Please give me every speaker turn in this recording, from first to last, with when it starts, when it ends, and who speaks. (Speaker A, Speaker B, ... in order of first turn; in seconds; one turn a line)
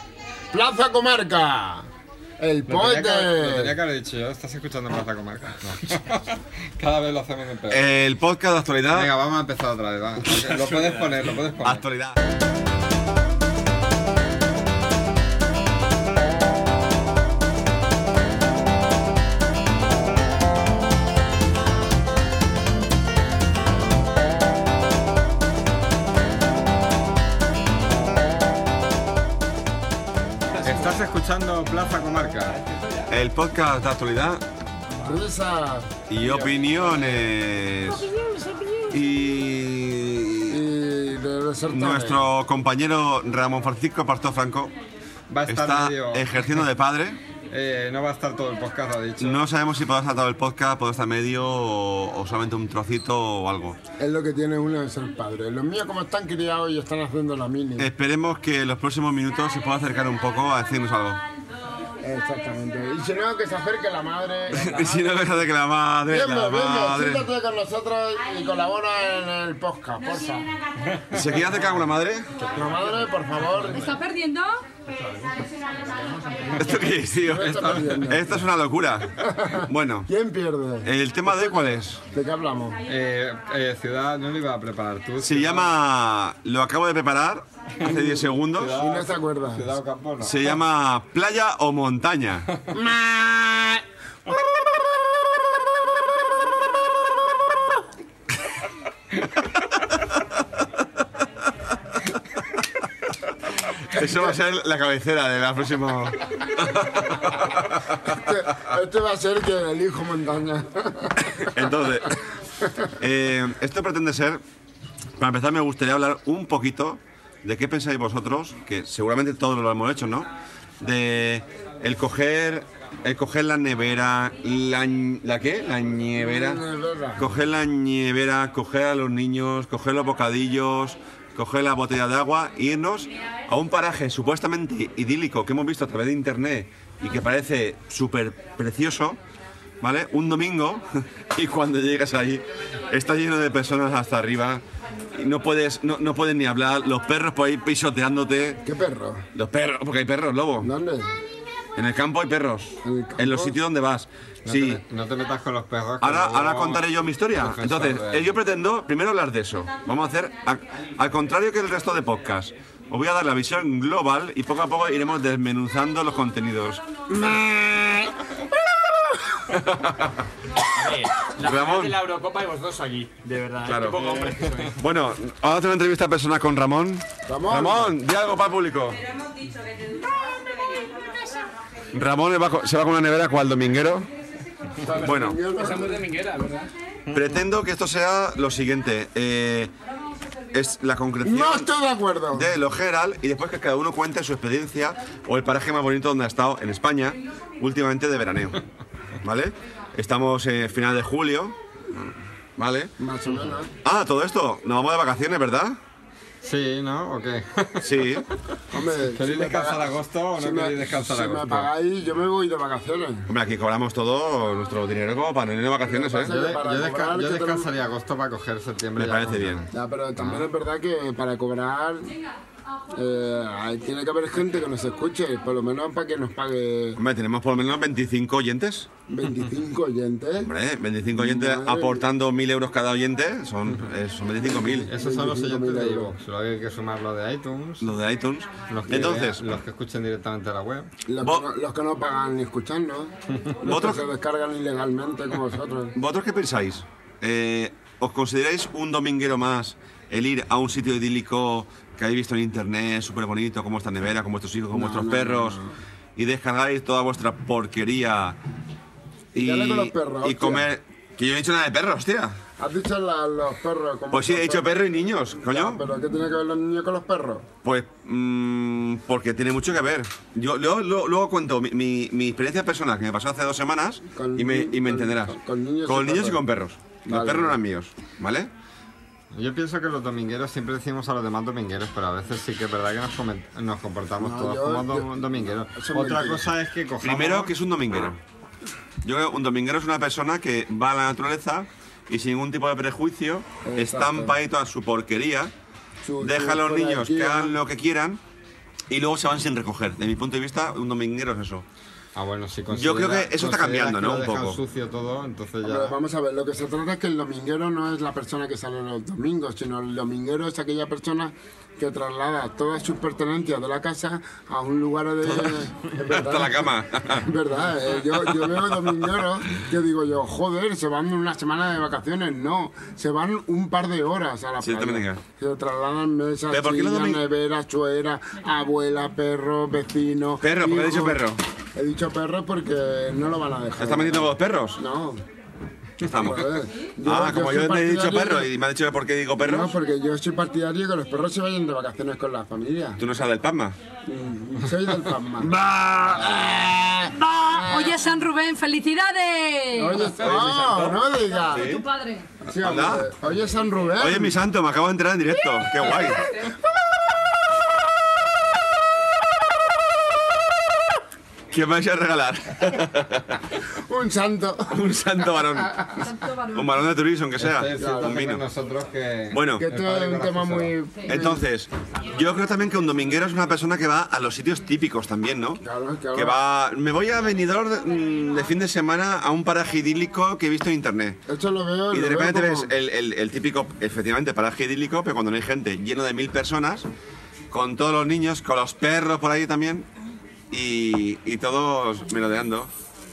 Speaker A: 0.5-1.9
Speaker A: 2.4-3.8
Speaker B: 2.7-7.8
Speaker C: 7.7-9.1
Speaker B: 8.9-11.8
Speaker C: 10.4-10.9
Speaker C: 11.6-12.2
Speaker D: 30.5-31.0
Speaker B: 30.6-32.6
Speaker D: 32.6-33.1
Speaker C: 33.1-34.5
Speaker A: 35.0-36.0
Speaker C: 36.1-38.1
Speaker B: 36.2-37.0
Speaker C: 38.9-40.6
Speaker A: 40.5-42.3
Speaker C: 41.7-44.7
Speaker B: 45.3-46.3
Speaker C: 45.5-47.2
Speaker B: 47.5-49.4
Speaker C: 49.2-53.8
Speaker A: 54.0-57.9
Speaker C: 57.8-61.2
Speaker A: 62.0-65.2
Speaker C: 64.5-67.3
Speaker A: 66.1-70.6
Speaker B: 70.8-71.6
Speaker C: 71.1-72.4
Speaker A: 72.5-73.9
Speaker B: 72.6-73.0
Speaker E: 73.7-74.7
Speaker B: 76.4-78.2
Speaker C: 76.6-80.1
Speaker A: 77.2-78.4
Speaker A: 79.2-82.8
Speaker C: 80.8-82.0
Speaker B: 82.9-85.7
Speaker C: 85.2-88.8
Speaker B: 87.8-90.6
Speaker A: 88.7-89.7
Speaker C: 90.2-92.5
Speaker A: 92.7-93.8
Speaker C: 103.8-108.2
Speaker A: 108.1-111.5
Speaker C: 111.4-112.2
Speaker C: 113.0-114.4
Speaker C: 115.2-120.3
Speaker C: 120.8-126.6
Speaker A: 126.2-127.4
Speaker C: 127.2-139.2
Speaker C: 139.8-144.6
Speaker C: 145.1-148.6
Speaker A: 148.6-149.3
Speaker C: 149.3-150.7
Speaker A: 150.6-151.1
Speaker C: 151.8-154.8
Speaker A: 152.8-153.6
Speaker B: 154.4-156.8
Speaker C: 156.0-166.8
Speaker B: 157.4-158.3
Speaker A: 167.1-168.3
Speaker C: 169.5-170.2
Speaker D: 170.7-174.8
Speaker C: 171.4-172.0
Speaker C: 173.7-174.2
Speaker C: 174.8-179.0
Speaker A: 177.3-178.0
Speaker E: 179.2-181.5
Speaker C: 181.9-184.1
Speaker A: 184.8-186.1
Speaker C: 185.0-185.4
Speaker D: 185.5-186.7
Speaker C: 187.1-189.7
Speaker C: 190.5-191.7
Speaker A: 191.2-192.5
Speaker C: 192.3-198.6
Speaker C: 199.2-202.0
Speaker C: 202.6-202.9
Speaker A: 203.0-203.7
Speaker C: 203.8-205.8
Speaker B: 206.4-208.2
Speaker C: 207.8-208.3
Speaker A: 208.7-213.3
Speaker B: 209.0-211.7
Speaker C: 213.3-216.3
Speaker A: 215.8-217.7
Speaker B: 216.2-220.4
Speaker C: 219.0-219.6
Speaker A: 219.7-222.1
Speaker A: 222.9-227.0
Speaker C: 227.0-228.9
Speaker A: 229.1-230.5
Speaker C: 230.4-234.9
Speaker A: 231.1-232.0
Speaker A: 234.5-236.1
Speaker B: 234.9-237.9
Speaker C: 237.8-239.4
Speaker B: 238.7-240.9
Speaker A: 241.1-246.0
Speaker C: 243.6-244.1
Speaker C: 245.9-255.6
Speaker A: 254.7-255.7
Speaker C: 256.2-258.4
Speaker C: 259.3-262.4
Speaker A: 259.4-260.7
Speaker A: 262.6-267.5
Speaker C: 264.1-265.8
Speaker C: 267.6-278.5
Speaker A: 274.1-276.4
Speaker A: 277.1-277.6
Speaker B: 279.3-287.5
Speaker A: 284.2-286.5
Speaker C: 287.0-288.2
Speaker C: 289.0-295.5
Speaker A: 293.6-294.4
Speaker A: 296.0-297.6
Speaker C: 296.2-298.2
Speaker C: 298.9-301.6
Speaker B: 302.1-305.9
Speaker C: 302.7-304.6
Speaker A: 305.6-331.2
Speaker C: 316.1-317.3
Speaker C: 318.3-319.3
Speaker C: 324.6-325.2
Speaker C: 326.5-327.2
Speaker C: 330.4-331.4
Speaker A: 331.8-335.2
Speaker C: 333.8-334.8
Speaker C: 336.0-336.5
Speaker A: 336.0-338.5
Speaker C: 337.0-339.7
Speaker A: 339.4-343.0
Speaker C: 343.0-343.8
Speaker A: 344.1-348.0
Speaker C: 345.4-346.2
Speaker E: 347.5-350.0
Speaker A: 349.7-351.7
Speaker C: 350.1-351.9
Speaker E: 351.4-352.4
Speaker A: 352.5-354.4
Speaker C: 352.6-353.1
Speaker C: 354.0-356.3
Speaker A: 355.8-356.4
Speaker C: 361.5-363.6
Speaker A: 363.7-364.8
Speaker C: 364.7-368.4
Speaker E: 366.2-366.6
Speaker B: 367.4-370.8
Speaker A: 367.8-368.2
Speaker C: 369.3-369.7
Speaker A: 369.6-371.5
Speaker C: 371.1-375.6
Speaker A: 375.6-376.4
Speaker C: 376.1-381.2
Speaker A: 381.3-382.7
Speaker C: 381.9-386.9
Speaker C: 387.5-389.9
Speaker C: 390.5-392.7